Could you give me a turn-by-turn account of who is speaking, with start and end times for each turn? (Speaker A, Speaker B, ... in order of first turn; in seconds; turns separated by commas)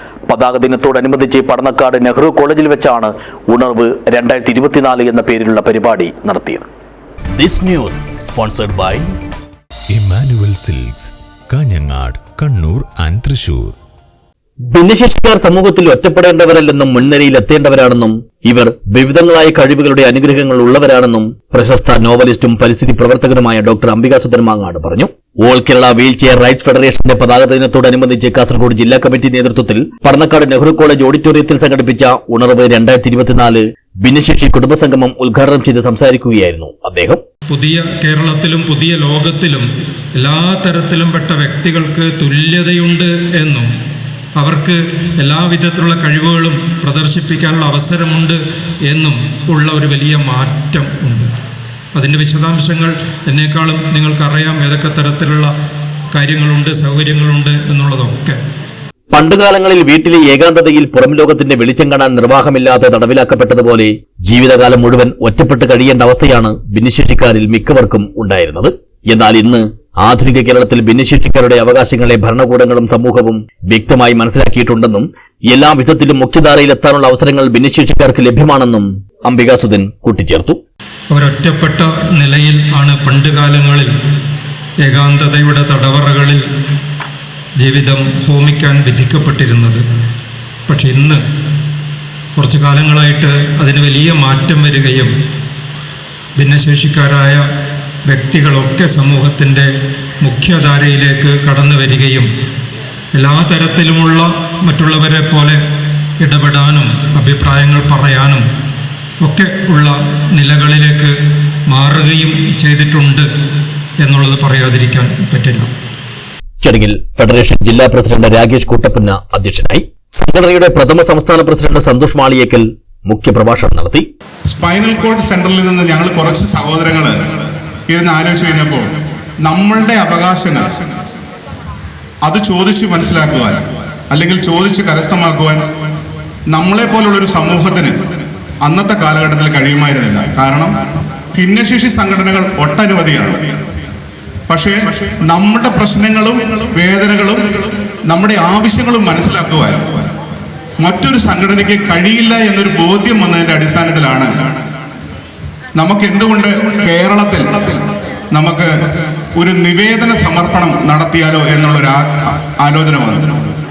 Speaker A: 0.3-6.6, Speaker A: 7.4-9.1, Speaker B: 9.9-13.8, Speaker A: 14.7-37.2, Speaker C: 37.5-43.7, Speaker C: 44.4-48.4, Speaker C: 48.9-51.3, Speaker C: 52.0-55.5, Speaker C: 56.1-58.4, Speaker A: 59.1-80.6, Speaker C: 81.1-83.9, Speaker C: 84.8-86.4, Speaker C: 87.6-89.8, Speaker C: 90.7-91.2, Speaker C: 92.4-95.1, Speaker C: 96.4-97.4, Speaker C: 98.1-99.7, Speaker C: 100.2-102.3, Speaker C: 103.2-105.6, Speaker C: 106.2-108.4, Speaker C: 109.2-111.1, Speaker C: 111.7-113.3, Speaker C: 114.0-115.7, Speaker A: 116.6-124.1, Speaker D: 124.5-130.9, Speaker D: 132.2-135.7, Speaker D: 136.5-140.7, Speaker D: 141.3-143.6, Speaker D: 144.5-150.1, Speaker D: 150.8-154.7, Speaker D: 155.8-163.6